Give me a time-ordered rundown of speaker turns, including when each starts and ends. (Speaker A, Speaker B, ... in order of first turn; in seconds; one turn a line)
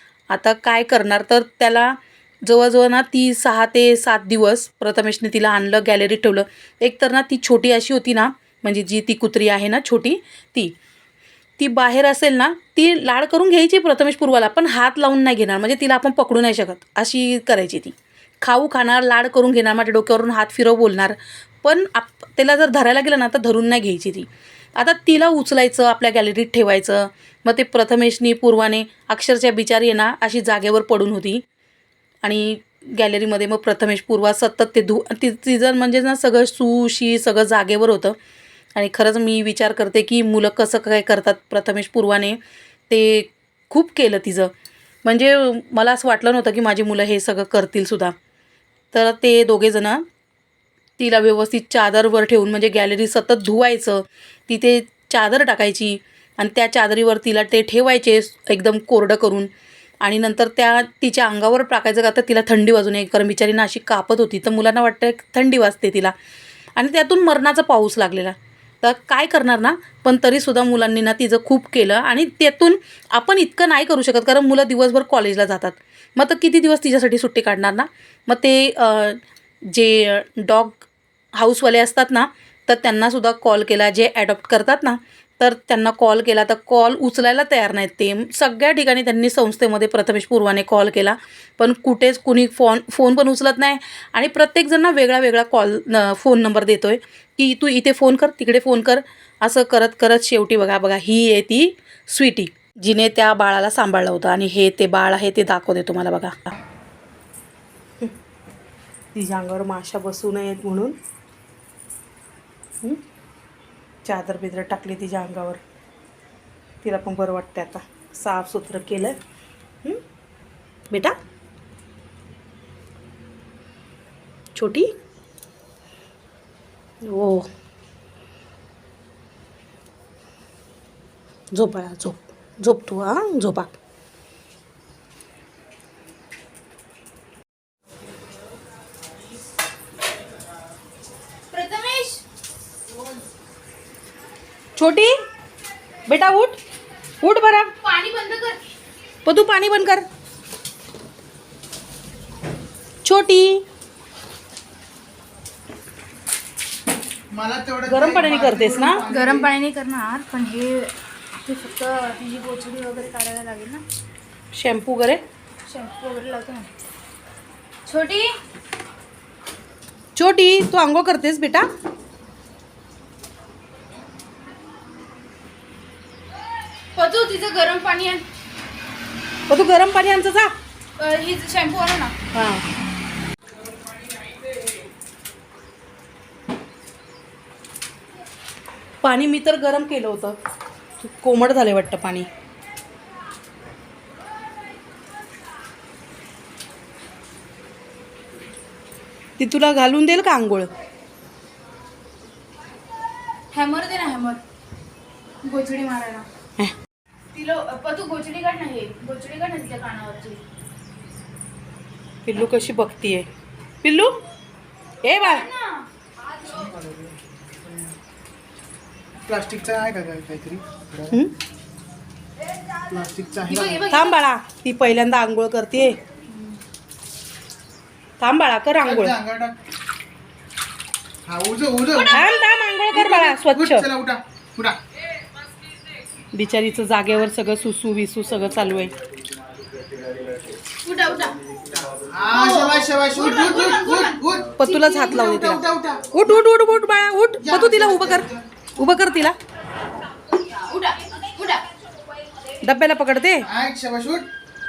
Speaker A: 0.3-10.7
Speaker A: 11.6-31.4
Speaker A: 32.2-38.1
Speaker A: 38.8-42.4
Speaker A: 42.9-44.5
Speaker A: 45.0-48.1
Speaker A: 48.9-50.0
Speaker A: 51.0-59.5
Speaker A: 60.0-66.1
Speaker A: 66.8-106.5
Speaker A: 109.1-111.0
Speaker A: 114.0-115.6
Speaker A: 116.8-119.2
Speaker A: 120.9-121.2
Speaker A: 124.5-124.9
Speaker A: 127.0-127.5
Speaker A: 131.5-133.7
Speaker B: 141.5-142.2
Speaker A: 144.8-145.1
Speaker A: 146.1-146.6
Speaker A: 147.2-147.7
Speaker B: 147.8-148.6
Speaker A: 149.2-150.1
Speaker A: 153.0-153.6
Speaker C: 157.3-159.5
Speaker A: 157.8-159.0
Speaker B: 159.0-160.9
Speaker B: 161.4-163.8
Speaker A: 164.5-165.2
Speaker B: 165.7-166.7
Speaker B: 167.8-168.4
Speaker A: 170.2-171.7
Speaker B: 176.9-178.2
Speaker A: 179.5-180.5
Speaker B: 181.0-182.2
Speaker A: 182.3-182.6
Speaker A: 189.0-190.4
Speaker A: 191.0-192.3
Speaker A: 199.4-200.7
Speaker B: 203.5-204.4
Speaker B: 205.4-206.3
Speaker B: 207.3-210.4
Speaker A: 212.2-213.3
Speaker A: 213.8-214.1
Speaker A: 215.0-215.5
Speaker B: 215.1-216.7
Speaker C: 216.4-217.9
Speaker C: 219.3-221.2
Speaker C: 222.9-223.9
Speaker B: 223.5-224.2
Speaker A: 223.9-226.0
Speaker A: 228.2-229.1
Speaker C: 228.8-229.6
Speaker C: 231.2-232.3
Speaker A: 232.1-233.9
Speaker C: 232.9-234.8
Speaker A: 236.3-238.9
Speaker B: 240.8-241.4
Speaker C: 241.7-246.1
Speaker B: 242.3-244.2
Speaker A: 244.6-249.4
Speaker C: 247.4-248.5
Speaker B: 250.4-251.7
Speaker A: 252.6-253.5
Speaker C: 253.4-254.3